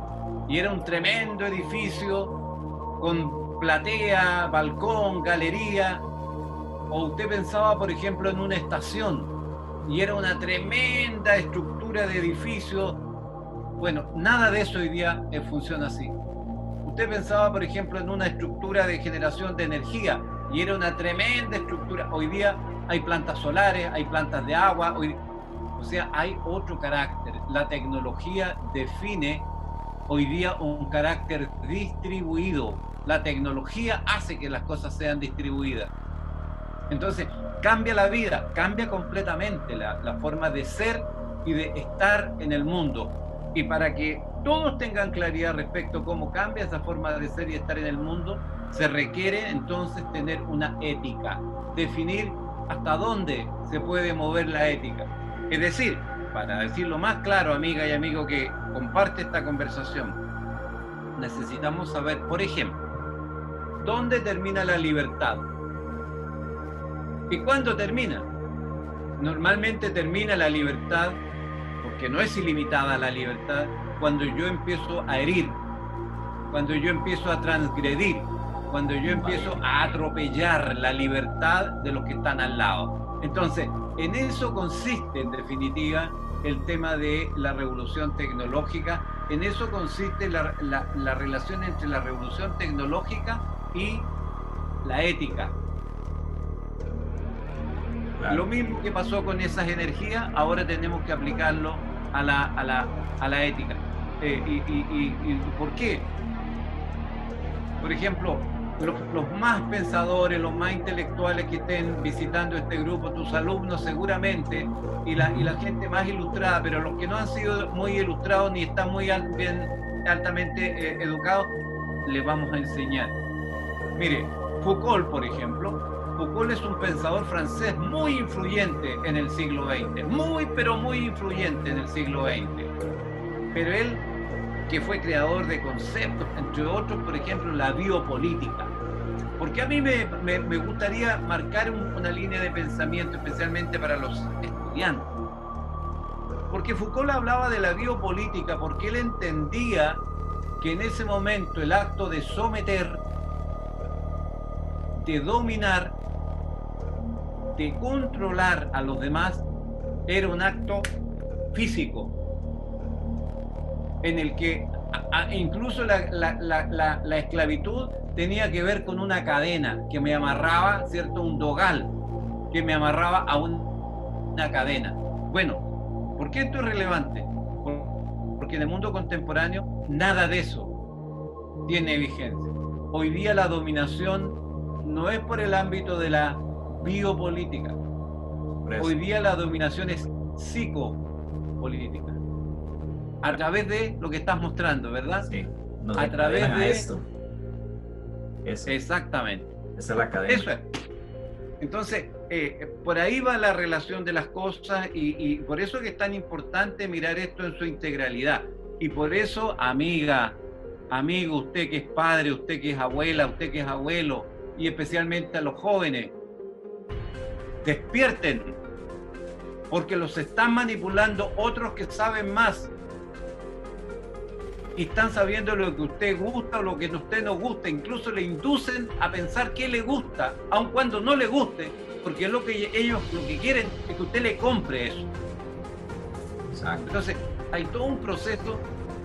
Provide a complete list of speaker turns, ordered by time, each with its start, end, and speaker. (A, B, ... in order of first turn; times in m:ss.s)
0:00.5-0:02.4 A
0:03.0-0:06.0 A
0:06.9-0:13.0 A
0:13.8-0:16.2 A
0:16.8-0:25.2 A
0:25.8-0:29.5 A
0:30.1-0:35.9 A
0:36.9-1:00.2 A
1:01.2-1:02.8 A
1:03.8-1:05.5 A
1:07.3-1:08.3 A
1:09.2-1:11.2 A
1:11.8-1:15.6 A
1:16.5-1:34.1 A
1:19.0-1:19.6 B
1:34.8-1:35.6 A
1:38.2-1:38.5 B
1:38.3-1:46.1 A
1:47.8-2:01.5 A
1:55.2-1:55.6 B
2:02.0-2:03.2 A
2:04.0-2:12.7 A
2:13.5-2:14.1 A
2:14.7-2:18.7 A
2:19.4-2:25.1 A
2:26.5-2:30.0 A
2:30.6-2:33.0 A
2:35.0-2:36.0 A
2:37.5-2:39.4 A
2:40.1-2:40.9 A
2:41.5-2:42.1 A
2:44.0-2:51.9 A
2:52.5-2:53.8 A
2:54.3-2:55.7 A
2:56.2-3:00.7 A
3:01.7-3:07.8 A
3:08.6-3:09.0 B
3:08.8-3:11.0 A
3:11.6-3:12.2 A
3:13.2-3:15.3 A
3:15.2-3:17.1 B
3:16.0-3:16.9 A
3:18.4-3:18.8 B
3:18.7-3:19.5 A
3:19.8-3:20.5 B
3:20.3-3:20.7 A
3:21.6-3:30.4 A
3:30.9-3:36.1 A
3:37.6-3:38.6 A
3:39.7-3:42.7 A
3:44.8-3:55.1 A
3:56.5-3:56.9 B
3:56.9-3:58.7 A